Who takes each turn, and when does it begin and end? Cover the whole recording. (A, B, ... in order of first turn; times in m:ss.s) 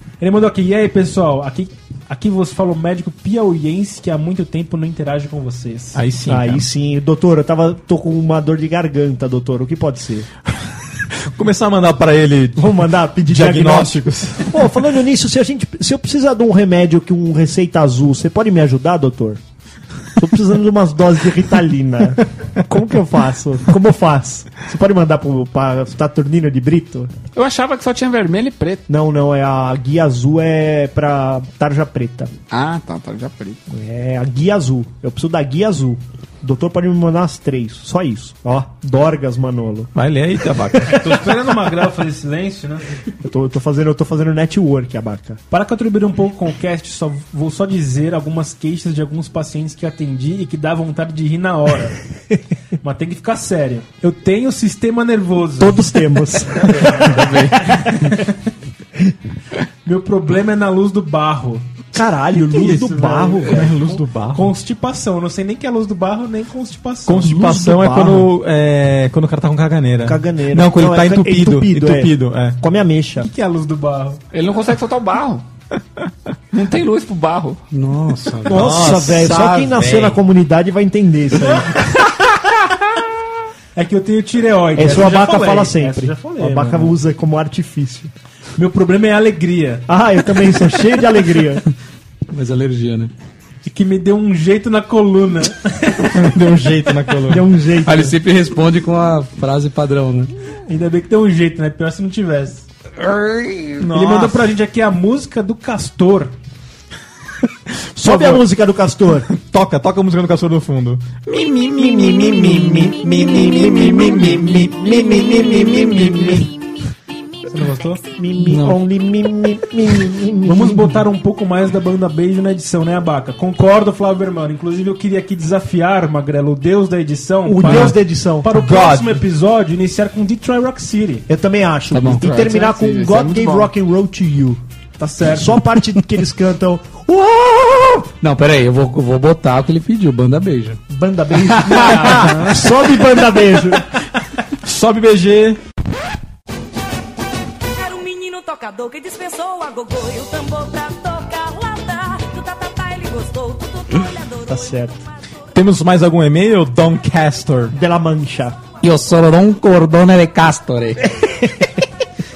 0:00.2-0:06.0 A
0:05.9-0:06.7 B
0:06.3-0:10.3 C
0:11.3-0:12.7 B
0:12.6-0:19.4 C
0:13.3-0:14.6 B
0:20.2-0:27.1 C
0:27.4-0:28.8 D
0:28.9-0:32.3 C
0:32.5-0:33.6 D
0:33.7-0:39.9 C
0:40.0-0:41.1 B
0:40.9-0:42.8 A
0:43.2-0:45.4 C
0:45.5-0:52.0 A
0:52.8-0:55.8 A
0:55.6-0:57.8 C
0:57.2-0:57.5 E
0:59.8-1:01.6 A
1:01.9-1:03.7 C
1:02.4-1:07.3 A
1:03.5-1:04.5 B
1:07.0-1:12.6 B
1:07.2-1:08.3 C
1:10.0-1:13.3 C
1:13.2-1:14.2 A
1:14.3-1:15.4 D
1:16.5-1:17.6 D
1:17.7-1:18.8 E
1:18.5-1:20.2 B
1:18.5-1:21.7 C
1:23.8-1:26.9 A
1:24.8-1:28.1 C
1:28.6-1:29.8 A
1:29.9-1:31.6 C
1:32.3-1:33.1 E
1:33.6-1:36.1 A
1:36.1-1:37.5 B
1:37.3-1:38.1 C
1:37.9-1:40.3 E
1:40.7-1:42.7 A
1:43.8-1:44.6 B
1:43.9-1:46.3 A
1:48.0-1:49.3 C
1:48.0-1:48.4 B
1:49.3-1:56.5 B
1:51.8-1:54.4 C
1:55.6-1:56.4 C
1:57.5-1:58.1 A
1:58.2-2:01.0 C
1:58.4-1:58.8 E
2:00.4-2:11.3 A
2:07.4-2:08.5 C
2:07.7-2:07.9 B
2:08.5-2:09.2 B
2:11.3-2:14.6 C
2:11.9-2:12.2 E
2:12.1-2:13.7 D
2:15.0-2:15.6 A
2:15.3-2:18.1 C
2:18.2-2:20.8 E
2:20.9-2:23.9 C
2:21.8-2:22.5 A
2:24.6-2:25.6 B
2:27.8-2:34.4 F
2:34.4-2:35.1 C
2:35.5-2:37.8 B
2:37.7-2:38.6 C
2:38.8-2:41.1 E
2:41.0-2:41.9 C